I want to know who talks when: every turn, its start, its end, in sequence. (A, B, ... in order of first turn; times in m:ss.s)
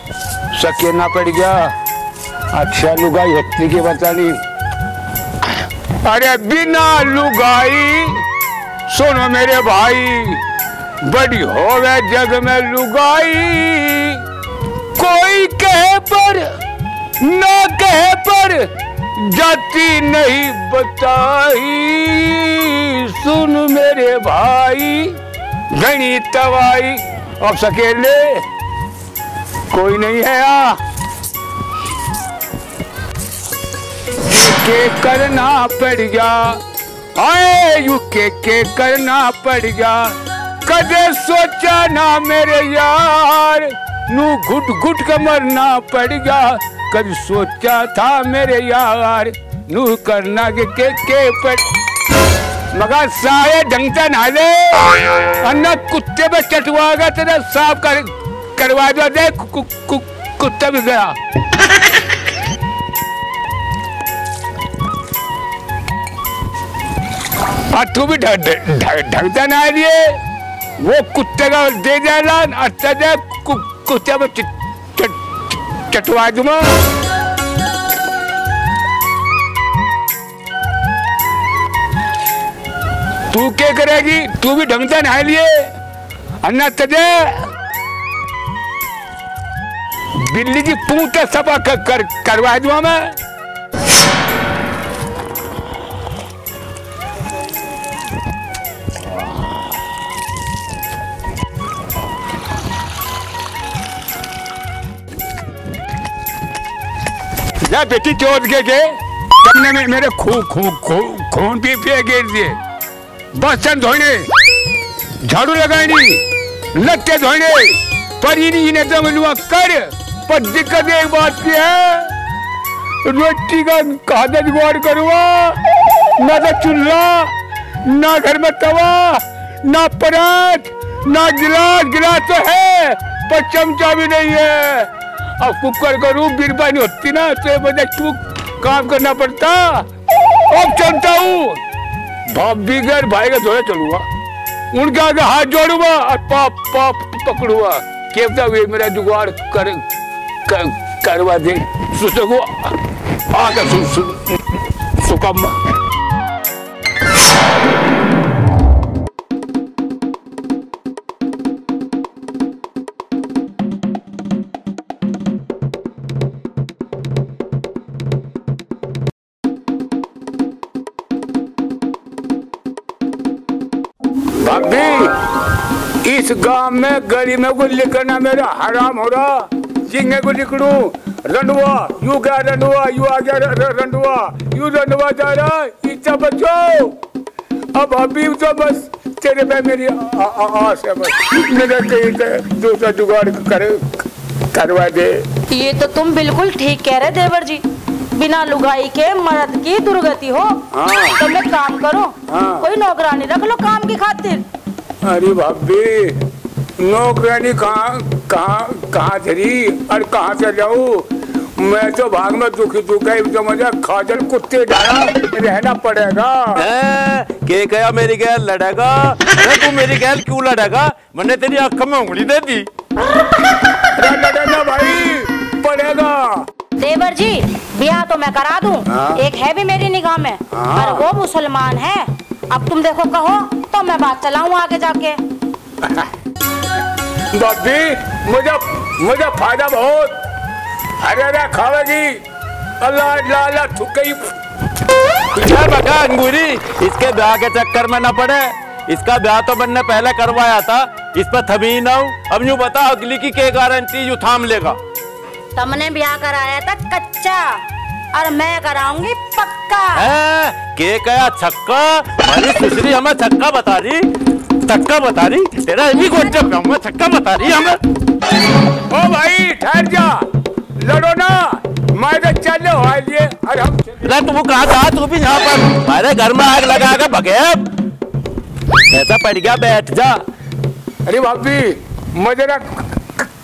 0:00.5-0:01.7 A
0:02.5-0:04.4 A
0:06.0-0:08.2 A
0:08.9-0:10.4 A
0:11.0-0:14.2 A
0:15.0-0:16.5 A
0:17.2-0:25.2 A
0:25.7-0:28.4 A
0:29.7-0:30.8 A
0:34.2-0:36.6 A
0:37.2-0:40.1 A
0:40.6-0:51.6 A
0:52.7-1:01.1 A
1:07.7-1:10.1 A
1:10.8-1:15.2 A
1:15.9-1:16.7 A
1:23.3-1:25.6 A
1:26.4-1:27.5 A
1:30.2-1:33.1 A
1:47.6-1:52.6 A
1:53.3-1:54.3 A
1:55.2-1:56.2 A
1:56.7-2:02.1 A
2:03.0-2:05.6 A
2:06.2-2:07.3 A
2:07.8-2:19.8 A
2:20.5-2:21.6 A
2:22.3-2:24.0 A
2:24.7-2:29.8 A
2:30.5-2:32.7 A
2:33.3-2:34.4 A
2:35.0-2:35.5 A
2:54.4-2:55.1 A
2:56.0-3:07.0 A
3:07.7-3:15.2 A
3:15.5-3:17.6 B
3:18.1-3:20.6 B
3:20.7-3:21.2 A
3:21.1-3:24.4 B
3:22.3-3:22.6 A
3:25.0-3:26.2 A
3:26.8-3:36.6 A
3:36.6-3:42.7 C
3:43.8-3:46.5 A
3:46.8-3:55.2 B
3:48.9-3:49.2 A
3:50.5-3:51.0 A
3:57.3-4:00.2 A
4:01.0-4:02.2 A
4:02.8-4:04.3 A
4:05.3-4:14.8 C
4:15.6-4:20.0 B
4:19.9-4:24.1 C
4:24.6-4:27.8 C
4:28.9-4:30.2 A
4:30.8-4:34.0 A
4:34.0-4:37.7 C
4:38.9-4:40.2 C
4:41.0-4:43.2 A